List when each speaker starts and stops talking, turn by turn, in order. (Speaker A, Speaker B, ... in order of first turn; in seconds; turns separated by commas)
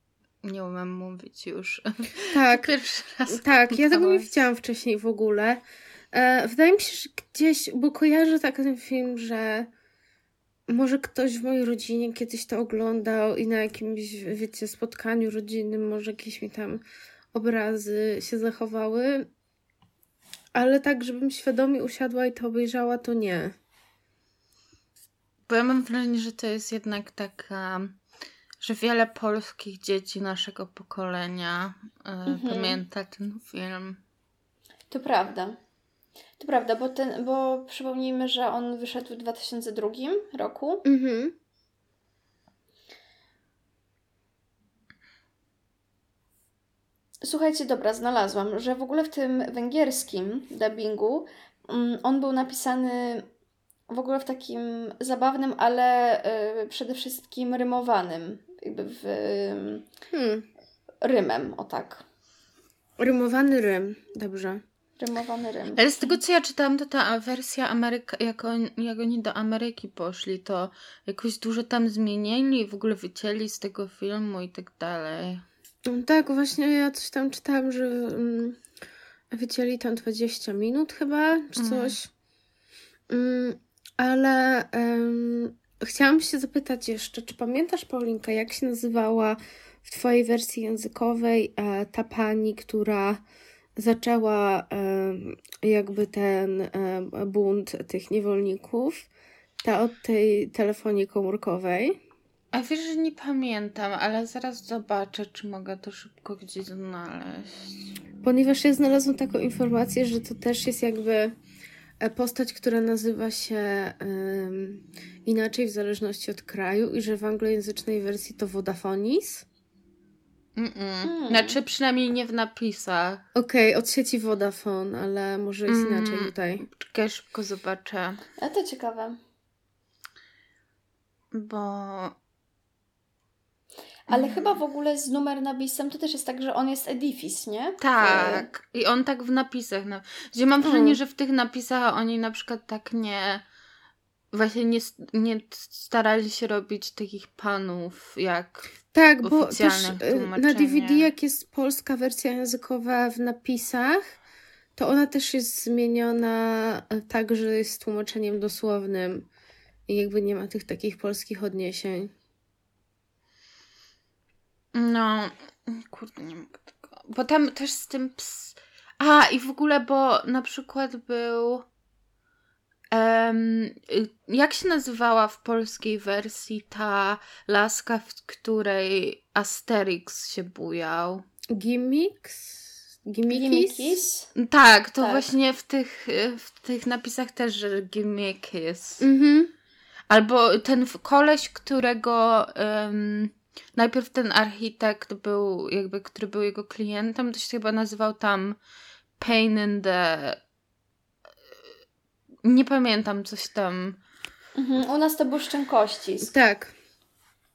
Speaker A: 0.4-4.3, Speaker B: 2.3-2.7, Speaker B: 3.3-5.6, Speaker B: 6.1-9.7, Speaker B: 10.7-16.8, Speaker B: 17.3-19.3, Speaker B: 20.6-23.5, Speaker A: 25.5-28.0, Speaker A: 28.6-34.0, Speaker C: 32.3-32.8, Speaker C: 34.9-35.6, Speaker C: 36.4-40.9, Speaker B: 40.9-41.3, Speaker C: 47.2-53.3, Speaker C: 53.9-59.9, Speaker B: 60.1-60.5, Speaker C: 61.0-62.0, Speaker B: 63.0-64.6, Speaker C: 65.0-65.8, Speaker A: 65.8-75.4, Speaker B: 75.9-78.6, Speaker B: 79.3-82.1, Speaker A: 81.6-82.0, Speaker B: 83.1-93.2, Speaker B: 93.8-99.1, Speaker B: 99.6-102.0, Speaker A: 102.5-107.8, Speaker B: 108.2-111.3, Speaker B: 112.0-119.5, Speaker A: 120.6-123.2, Speaker C: 121.0-121.6, Speaker B: 123.3-126.7, Speaker A: 125.7-128.2, Speaker C: 128.4-129.2, Speaker A: 131.3-132.2, Speaker C: 134.1-138.5, Speaker A: 137.8-143.4, Speaker B: 140.6-141.0, Speaker A: 144.3-151.1, Speaker B: 148.9-154.1, Speaker B: 154.8-159.3, Speaker B: 159.9-162.1, Speaker A: 164.7-171.7, Speaker A: 172.9-181.2, Speaker B: 181.5-184.0, Speaker C: 183.3-184.3, Speaker A: 184.3-189.0, Speaker C: 185.0-185.3, Speaker B: 189.0-189.5, Speaker A: 190.1-198.6, Speaker A: 199.2-200.4, Speaker A: 202.4-204.0, Speaker C: 204.6-206.3, Speaker B: 206.2-206.7